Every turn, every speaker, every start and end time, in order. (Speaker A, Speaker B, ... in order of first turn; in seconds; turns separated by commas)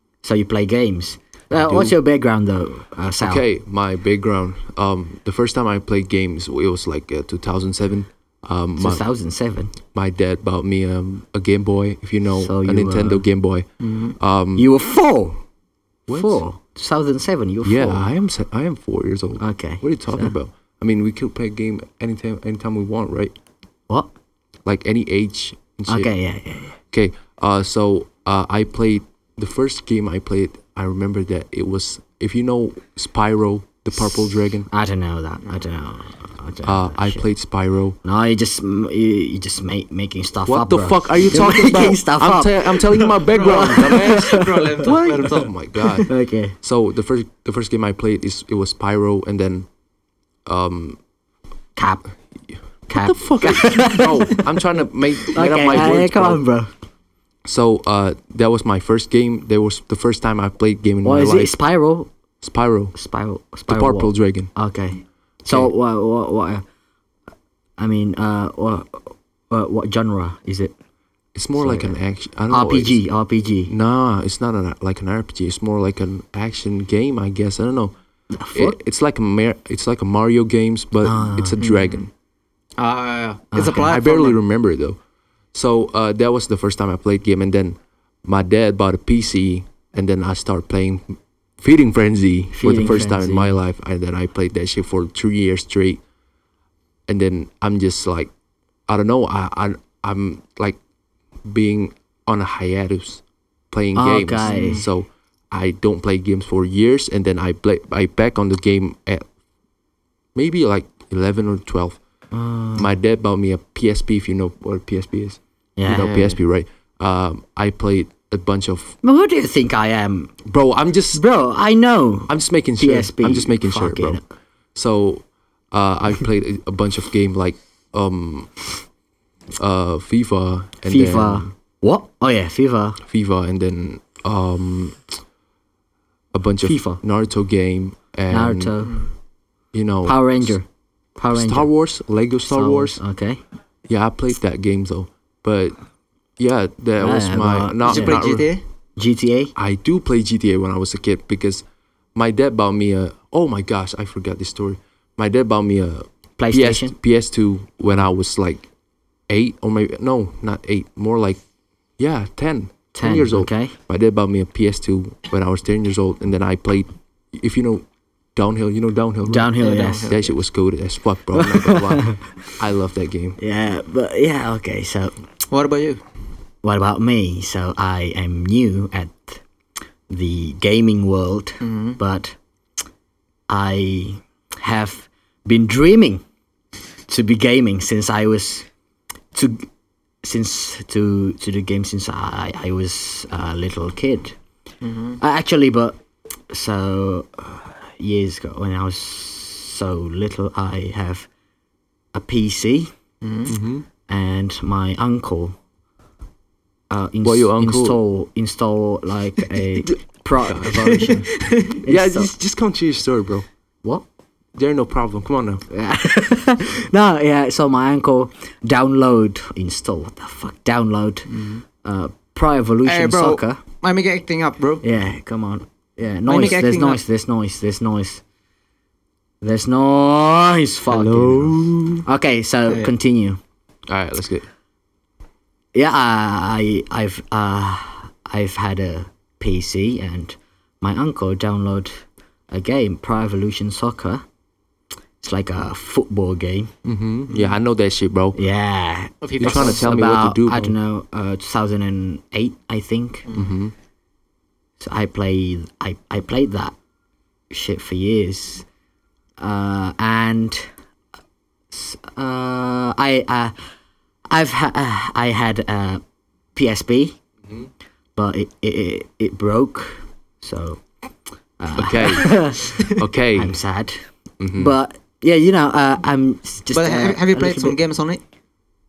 Speaker A: 0.2-3.4, Speaker B: 1.5-1.9, Speaker B: 3.2-9.0, Speaker A: 8.8-9.8, Speaker B: 9.9-13.7, Speaker A: 12.4-13.2, Speaker C: 13.8-14.2, Speaker B: 14.2-14.7, Speaker A: 14.6-15.4, Speaker B: 16.1-16.4, Speaker A: 16.1-18.1, Speaker B: 17.6-23.4, Speaker A: 19.4-20.4, Speaker B: 24.6-26.1, Speaker A: 25.9-26.8, Speaker B: 26.9-34.7, Speaker A: 34.7-37.3, Speaker B: 36.6-38.0, Speaker A: 38.0-44.8, Speaker B: 40.5-46.1, Speaker C: 43.3-46.0, Speaker A: 46.1-46.5, Speaker B: 46.6-49.7, Speaker B: 50.5-51.0, Speaker A: 51.8-52.0, Speaker A: 52.9-54.5, Speaker B: 52.9-56.4, Speaker A: 55.3-56.7, Speaker B: 57.5-61.5, Speaker A: 61.0-62.1, Speaker B: 62.4-63.0, Speaker A: 63.0-66.6, Speaker B: 63.7-64.5, Speaker A: 67.8-70.7, Speaker B: 71.3-73.0, Speaker A: 71.6-72.0, Speaker A: 72.5-73.7, Speaker B: 73.7-77.9, Speaker A: 78.3-78.8, Speaker B: 78.5-82.1, Speaker A: 81.0-81.6, Speaker C: 81.6-82.0, Speaker C: 82.8-84.4, Speaker A: 83.5-83.8, Speaker B: 83.6-85.0, Speaker B: 85.5-96.0, Speaker A: 92.5-93.6, Speaker B: 97.1-98.3, Speaker B: 98.9-100.8, Speaker B: 101.4-109.3, Speaker A: 104.0-104.9, Speaker C: 104.5-104.8, Speaker B: 110.3-112.0, Speaker A: 112.3-112.9, Speaker B: 112.7-119.0, Speaker A: 115.8-116.3, Speaker C: 115.9-116.4, Speaker A: 119.0-120.4, Speaker B: 120.5-121.2, Speaker A: 121.1-124.2, Speaker B: 122.3-124.2, Speaker B: 124.8-128.7, Speaker B: 129.6-131.5, Speaker A: 130.8-133.0, Speaker B: 133.1-135.0, Speaker B: 136.3-138.7, Speaker A: 136.6-137.0, Speaker A: 138.3-139.0, Speaker B: 139.7-140.6, Speaker A: 140.1-140.7, Speaker A: 141.2-141.7, Speaker B: 141.3-143.0, Speaker A: 142.5-143.4, Speaker B: 143.9-145.8, Speaker B: 146.4-148.5, Speaker A: 147.0-148.3, Speaker C: 147.8-148.6, Speaker A: 149.0-149.5, Speaker B: 149.6-151.6, Speaker B: 152.2-158.7, Speaker A: 156.4-156.9, Speaker B: 159.3-161.4, Speaker B: 162.0-167.8, Speaker A: 162.9-163.7, Speaker B: 168.4-169.5, Speaker A: 169.2-170.1, Speaker C: 169.6-170.3, Speaker B: 170.1-173.4, Speaker A: 171.3-172.2, Speaker A: 173.4-175.1, Speaker C: 175.5-176.0, Speaker A: 176.6-179.4, Speaker A: 180.1-182.4, Speaker C: 181.6-182.0, Speaker A: 183.5-186.2, Speaker A: 187.1-188.7, Speaker A: 189.3-189.7, Speaker A: 190.2-194.4, Speaker C: 194.8-195.2, Speaker A: 195.2-196.0, Speaker A: 196.5-201.3, Speaker A: 202.1-202.9, Speaker C: 203.2-203.5, Speaker B: 203.5-203.9, Speaker A: 204.1-205.6, Speaker A: 206.9-212.3, Speaker B: 207.2-208.0, Speaker B: 209.9-211.2, Speaker C: 211.0-211.8, Speaker B: 211.7-213.4, Speaker B: 214.6-215.6, Speaker A: 215.7-223.6, Speaker C: 221.3-221.6, Speaker C: 222.8-224.8, Speaker A: 224.8-228.2, Speaker C: 226.3-227.0, Speaker A: 229.4-233.4, Speaker B: 230.9-232.0, Speaker B: 233.9-234.4, Speaker A: 235.7-244.2, Speaker A: 245.2-246.7, Speaker B: 246.8-248.4, Speaker C: 247.3-247.6, Speaker A: 248.3-253.3, Speaker C: 249.2-249.9, Speaker B: 249.4-250.7, Speaker C: 253.3-253.5, Speaker B: 253.3-253.7, Speaker A: 254.8-256.8, Speaker A: 257.5-258.6, Speaker A: 259.4-260.7, Speaker A: 261.7-263.6, Speaker A: 264.3-266.0, Speaker A: 266.6-267.2, Speaker A: 268.2-270.8, Speaker A: 271.6-272.8, Speaker B: 271.8-273.6, Speaker A: 273.3-274.0, Speaker B: 274.4-274.7, Speaker A: 274.6-277.8, Speaker C: 276.7-278.2